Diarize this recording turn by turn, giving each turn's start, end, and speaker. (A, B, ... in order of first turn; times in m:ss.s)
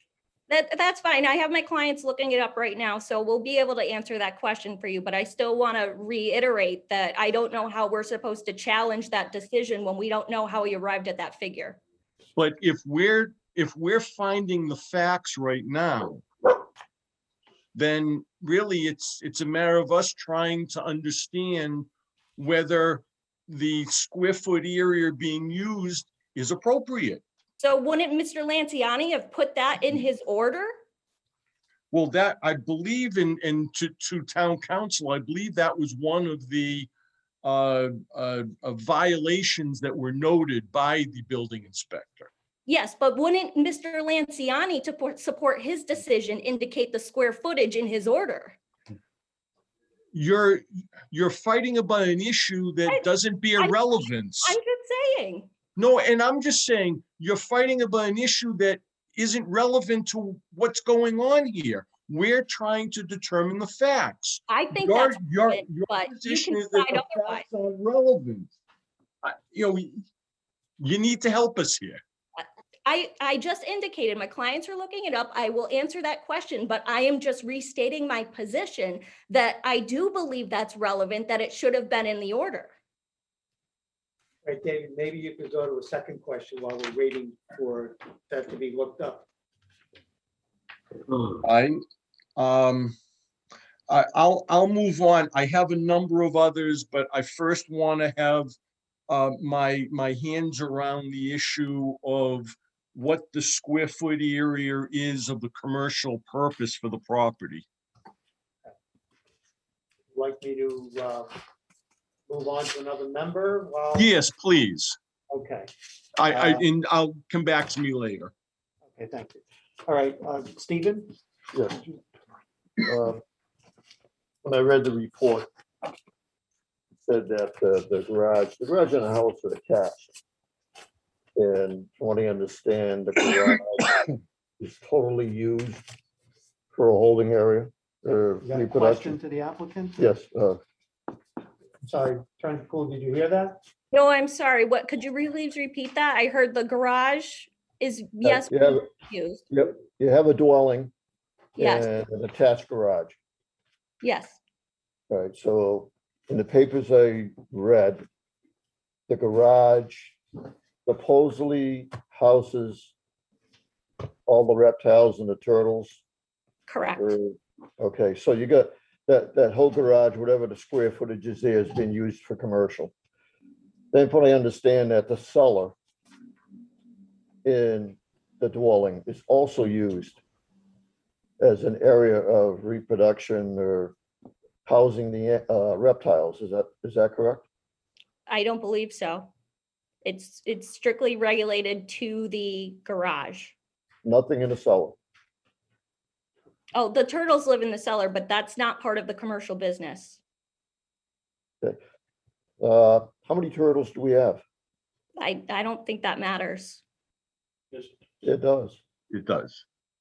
0:00.5-0:11.8 A
0:12.4-0:16.2 B
0:17.7-0:27.2 B
0:27.6-0:30.7 A
0:31.9-0:36.9 B
0:37.4-0:42.3 B
0:42.6-0:48.6 A
0:50.1-0:54.6 B
0:52.9-0:55.5 A
0:55.8-1:08.5 B
1:04.5-1:07.4 A
1:09.2-1:10.0 B
1:10.8-1:12.0 B
1:12.4-1:22.7 A
1:24.4-1:29.2 C
1:31.4-1:31.8 B
1:32.4-1:32.9 B
1:33.9-1:38.5 B
1:39.1-1:47.6 B
1:50.1-1:51.4 C
1:52.3-1:54.1 C
1:53.9-1:55.0 B
1:55.3-1:55.7 C
1:56.2-1:58.3 B
1:56.3-1:56.6 C
1:58.9-2:01.1 C
2:01.5-2:01.8 D
2:02.8-2:03.2 D
2:04.4-2:05.5 D
2:07.0-2:10.1 D
2:11.4-2:15.8 D
2:16.7-2:19.2 D
2:18.4-2:20.0 C
2:20.0-2:20.6 D
2:21.8-2:23.6 C
2:23.9-2:29.4 A
2:28.2-2:28.8 D
2:29.5-2:30.9 D
2:31.6-2:33.2 D
2:31.6-2:31.9 A
2:34.0-2:34.4 A
2:35.1-2:38.0 D
2:39.1-2:40.2 D
2:40.8-2:42.9 D
2:44.2-2:46.0 D
2:46.7-2:47.1 A
2:47.0-2:52.9 D
2:53.9-2:55.7 D
2:57.4-3:00.2 D
3:01.4-3:03.9 D
3:04.6-3:07.4 D
3:08.3-3:09.3 A
3:10.0-3:13.5 A
3:14.0-3:15.0 D
3:16.7-3:20.2 A
3:22.6-3:24.4 D
3:25.2-3:26.8 A
3:28.2-3:28.8 D
3:29.1-3:29.6 B